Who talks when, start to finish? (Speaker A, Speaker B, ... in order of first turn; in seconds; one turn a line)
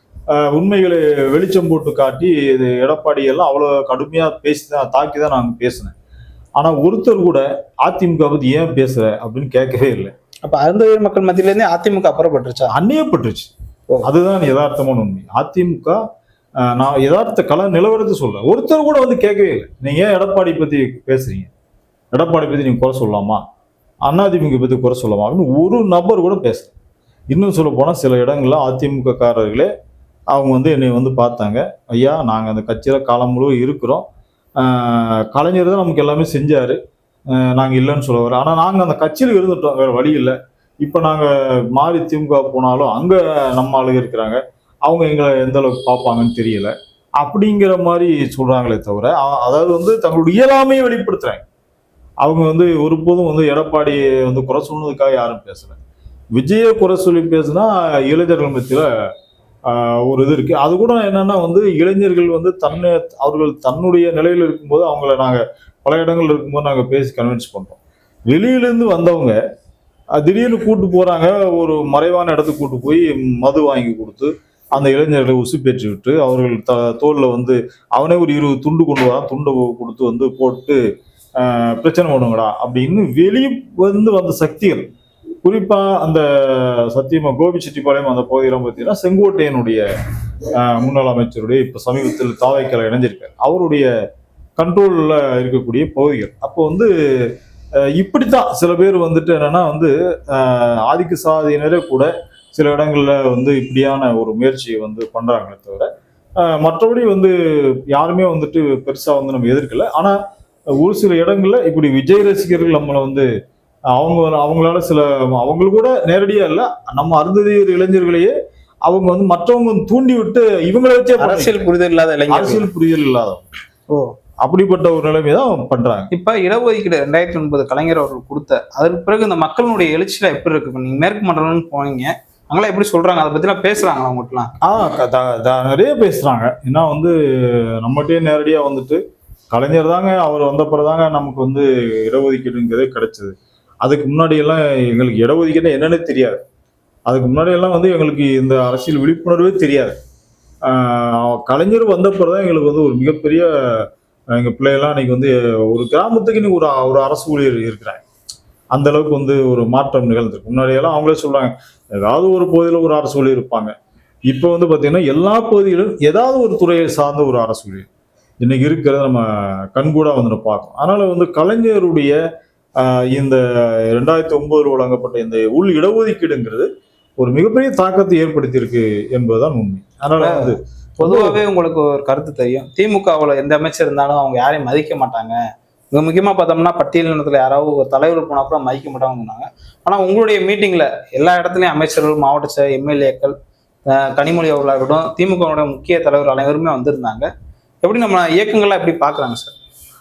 Speaker A: 0.3-5.9
Speaker A: 6.6-10.1
Speaker B: 10.4-12.7
Speaker A: 12.7-13.5
Speaker A: 14.0-16.0
Speaker A: 16.6-21.5
Speaker A: 22.1-23.4
Speaker A: 24.1-26.7
Speaker A: 27.3-29.7
Speaker A: 30.3-34.0
Speaker A: 34.6-36.8
Speaker A: 37.3-51.4
Speaker A: 52.2-55.8
Speaker A: 56.4-58.9
Speaker A: 59.7-69.4
Speaker A: 70.2-80.8
Speaker A: 81.4-84.9
Speaker A: 85.4-89.8
Speaker A: 90.5-93.9
Speaker A: 94.6-97.3
Speaker A: 97.9-107.3
Speaker A: 107.9-110.1
Speaker A: 110.7-113.3
Speaker A: 113.9-118.3
Speaker A: 118.8-121.6
Speaker B: 121.2-122.7
Speaker A: 122.3-123.5
Speaker A: 124.4-126.1
Speaker B: 126.1-134.5
Speaker A: 134.6-139.0
Speaker A: 139.5-146.4
Speaker A: 147.1-150.0
Speaker A: 150.6-158.0
Speaker A: 158.7-163.7
Speaker A: 164.3-167.9
Speaker A: 168.4-172.1
Speaker A: 172.8-181.4
Speaker B: 180.2-185.4
Speaker B: 185.9-193.3
Speaker B: 193.9-197.3
Speaker B: 197.8-199.5